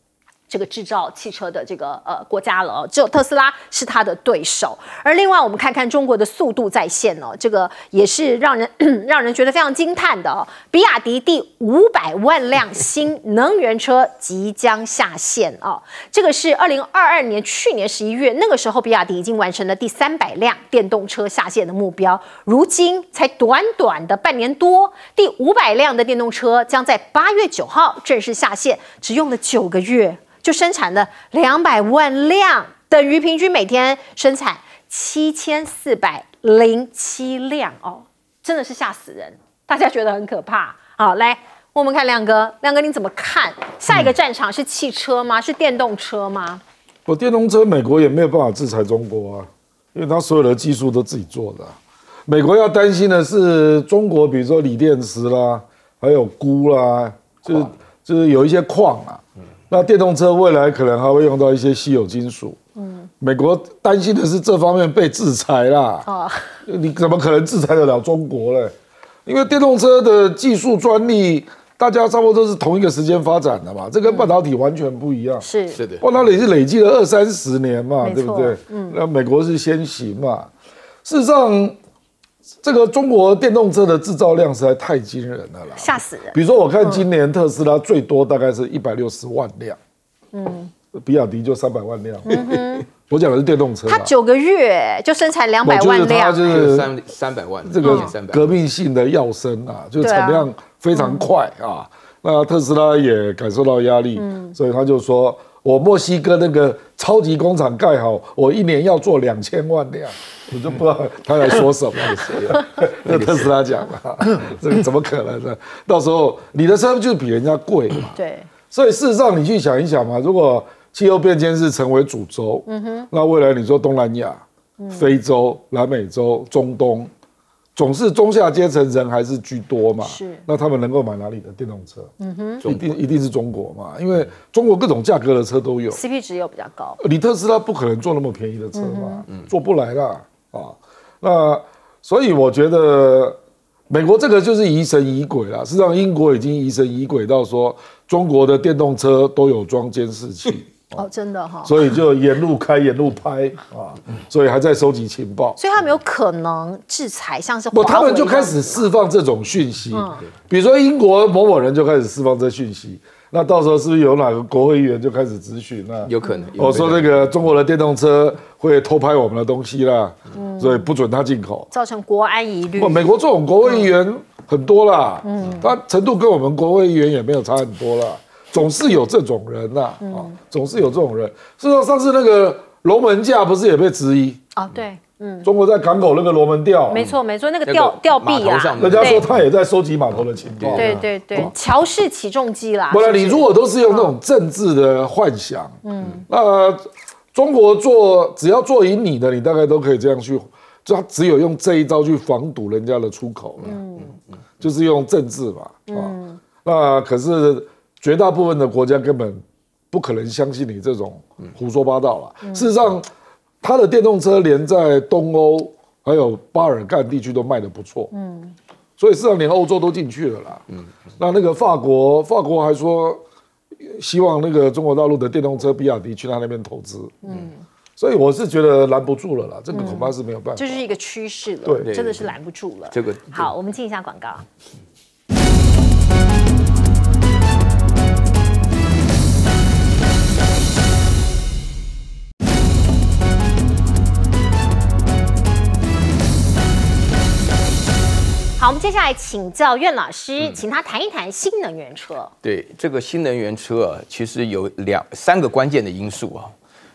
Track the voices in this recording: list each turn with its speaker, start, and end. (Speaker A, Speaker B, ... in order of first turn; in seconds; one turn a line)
Speaker A: 0.5-46.6
Speaker B: 47.0-51.8
Speaker B: 52.3-62.6
Speaker A: 62.8-63.1
Speaker B: 63.2-66.1
Speaker A: 66.0-66.6
Speaker B: 66.7-68.7
Speaker B: 69.2-75.5
Speaker A: 74.0-74.3
Speaker A: 75.4-75.8
Speaker C: 75.8-76.0
Speaker B: 76.0-80.5
Speaker A: 78.0-79.0
Speaker B: 81.0-81.8
Speaker B: 82.6-89.8
Speaker A: 85.8-87.0
Speaker A: 90.3-90.7
Speaker B: 90.9-92.4
Speaker A: 92.2-92.8
Speaker B: 93.1-94.1
Speaker A: 93.9-96.5
Speaker B: 95.6-96.9
Speaker C: 96.5-98.5
Speaker B: 97.6-118.1
Speaker A: 97.8-98.1
Speaker A: 100.0-101.3
Speaker A: 104.2-104.5
Speaker C: 112.2-113.5
Speaker A: 118.2-118.5
Speaker B: 118.7-124.4
Speaker A: 122.7-123.1
Speaker A: 124.8-125.1
Speaker B: 124.9-127.1
Speaker B: 127.8-132.1
Speaker A: 130.0-130.4
Speaker A: 132.2-132.6
Speaker B: 132.6-136.0
Speaker A: 135.9-137.0
Speaker B: 137.0-143.4
Speaker A: 138.7-139.2
Speaker B: 143.9-151.0
Speaker A: 150.9-151.7
Speaker B: 151.6-155.6
Speaker A: 155.6-158.9
Speaker B: 157.7-171.7
Speaker A: 159.9-160.2
Speaker C: 166.1-167.3
Speaker A: 170.3-170.9
Speaker A: 171.7-173.0
Speaker B: 172.8-184.4
Speaker A: 173.6-173.9
Speaker A: 175.2-175.7
Speaker A: 180.0-180.3
Speaker A: 184.6-185.5
Speaker B: 185.4-187.1
Speaker A: 186.9-189.2
Speaker C: 187.7-189.4
Speaker B: 188.8-191.5
Speaker C: 190.6-191.0
Speaker A: 190.8-194.1
Speaker B: 192.9-203.8
Speaker A: 195.8-196.2
Speaker A: 203.6-204.1
Speaker B: 204.6-213.1
Speaker A: 205.9-206.4
Speaker B: 213.6-218.1
Speaker A: 218.1-218.5
Speaker B: 219.0-220.6
Speaker B: 221.2-223.2
Speaker B: 223.8-227.2
Speaker A: 227.2-227.6
Speaker B: 228.0-230.8
Speaker A: 229.7-234.4
Speaker C: 231.8-232.3
Speaker C: 232.9-233.5
Speaker A: 248.6-252.3
Speaker C: 252.4-256.5